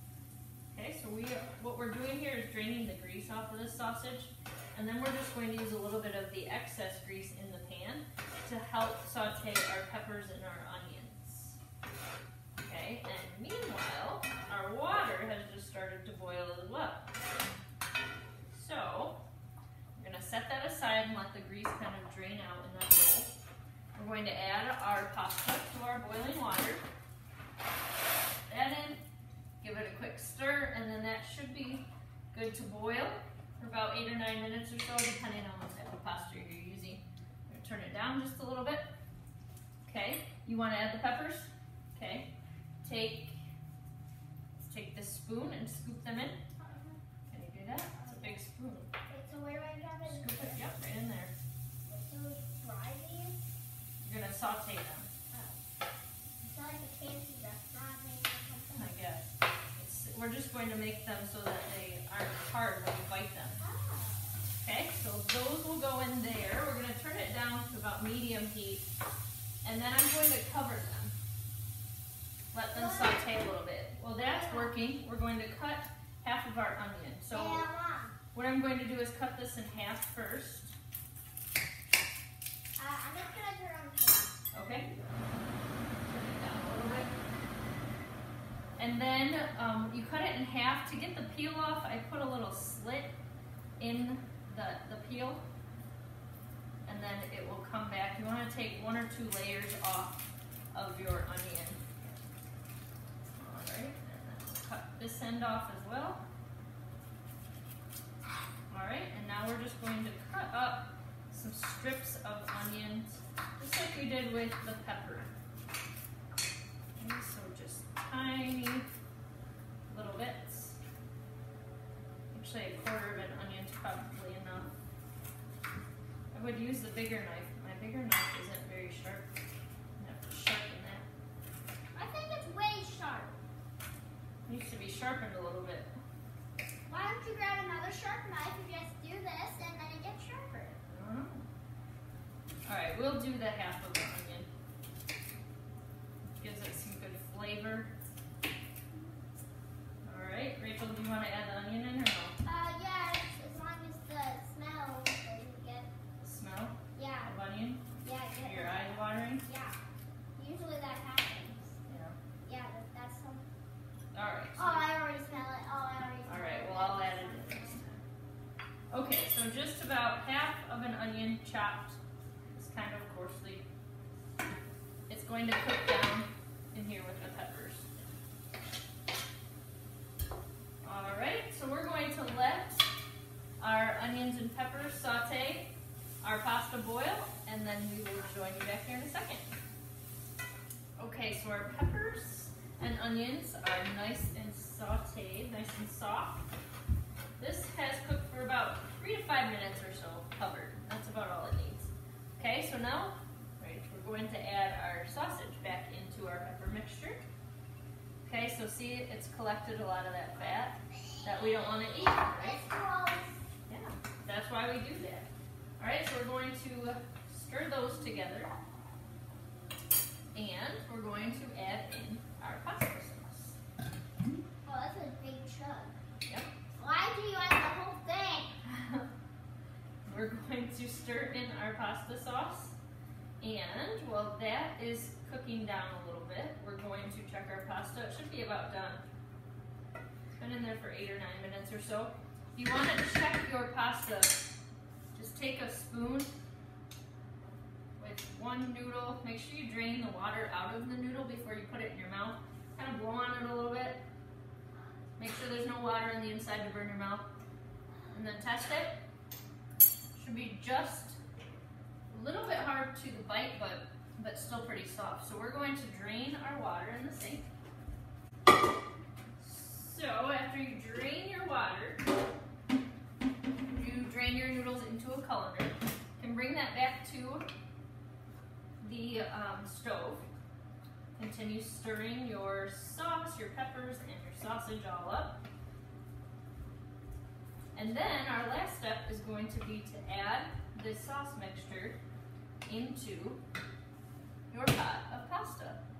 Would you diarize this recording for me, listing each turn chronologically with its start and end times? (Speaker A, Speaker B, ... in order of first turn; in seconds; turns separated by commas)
Speaker A: 0.7-11.6, Speaker A: 12.6-17.1, Speaker A: 18.5-19.2, Speaker A: 19.9-23.3, Speaker A: 23.9-26.8, Speaker A: 28.5-29.0, Speaker A: 29.6-38.9, Speaker A: 39.8-43.4, Speaker A: 44.6-46.4, Speaker B: 46.6-47.0, Speaker A: 47.3-48.9, Speaker B: 47.9-48.4, Speaker B: 49.1-50.8, Speaker A: 50.0-51.3, Speaker B: 51.9-53.4, Speaker A: 54.0-55.1, Speaker B: 55.3-55.6, Speaker B: 56.4-59.0, Speaker A: 58.7-63.6, Speaker B: 63.6-64.4, Speaker A: 64.6-68.8, Speaker A: 69.6-71.1, Speaker A: 72.5-77.7, Speaker B: 72.7-73.4, Speaker B: 74.2-74.8, Speaker B: 77.3-78.2, Speaker A: 78.3-80.8, Speaker B: 82.8-84.4, Speaker A: 84.5-84.9, Speaker A: 86.0-87.1, Speaker A: 88.8-93.1, Speaker A: 93.8-95.4, Speaker A: 96.8-101.9, Speaker A: 103.4-106.2, Speaker A: 108.7-115.3, Speaker A: 117.0-118.9, Speaker A: 119.9-120.8, Speaker A: 122.3-124.7, Speaker A: 126.3-129.3, Speaker A: 130.0-131.1, Speaker B: 131.9-133.3, Speaker A: 134.5-135.9, Speaker B: 136.9-140.8, Speaker A: 140.9-141.4, Speaker A: 142.7-144.5, Speaker A: 146.4-147.9, Speaker A: 150.0-152.3, Speaker B: 152.4-155.9, Speaker A: 156.2-157.8, Speaker B: 156.9-157.3, Speaker B: 158.0-159.8, Speaker A: 158.4-159.4, Speaker B: 160.3-161.8, Speaker A: 161.8-162.2, Speaker B: 162.4-163.4, Speaker A: 164.1-164.9, Speaker B: 164.6-167.9, Speaker A: 166.2-168.0, Speaker A: 168.9-172.0, Speaker A: 172.5-173.7, Speaker A: 175.1-177.9, Speaker A: 180.8-182.9, Speaker A: 183.6-189.5, Speaker A: 191.0-196.4, Speaker A: 197.4-207.2, Speaker A: 208.2-212.6, Speaker B: 211.1-213.4, Speaker A: 213.7-215.3, Speaker A: 215.8-218.5, Speaker A: 220.3-223.6, Speaker B: 224.6-226.0, Speaker B: 226.8-228.6, Speaker A: 228.6-229.1, Speaker A: 230.0-232.8, Speaker A: 233.4-239.1, Speaker A: 240.4-244.5, Speaker A: 245.1-246.3, Speaker A: 248.0-254.0, Speaker A: 255.2-257.2, Speaker A: 258.1-258.9, Speaker A: 260.1-261.2, Speaker A: 262.1-267.5, Speaker A: 269.4-272.0, Speaker A: 273.7-277.4, Speaker A: 278.8-280.3, Speaker A: 281.1-285.4, Speaker A: 287.7-292.0, Speaker A: 292.6-293.4, Speaker A: 294.5-295.8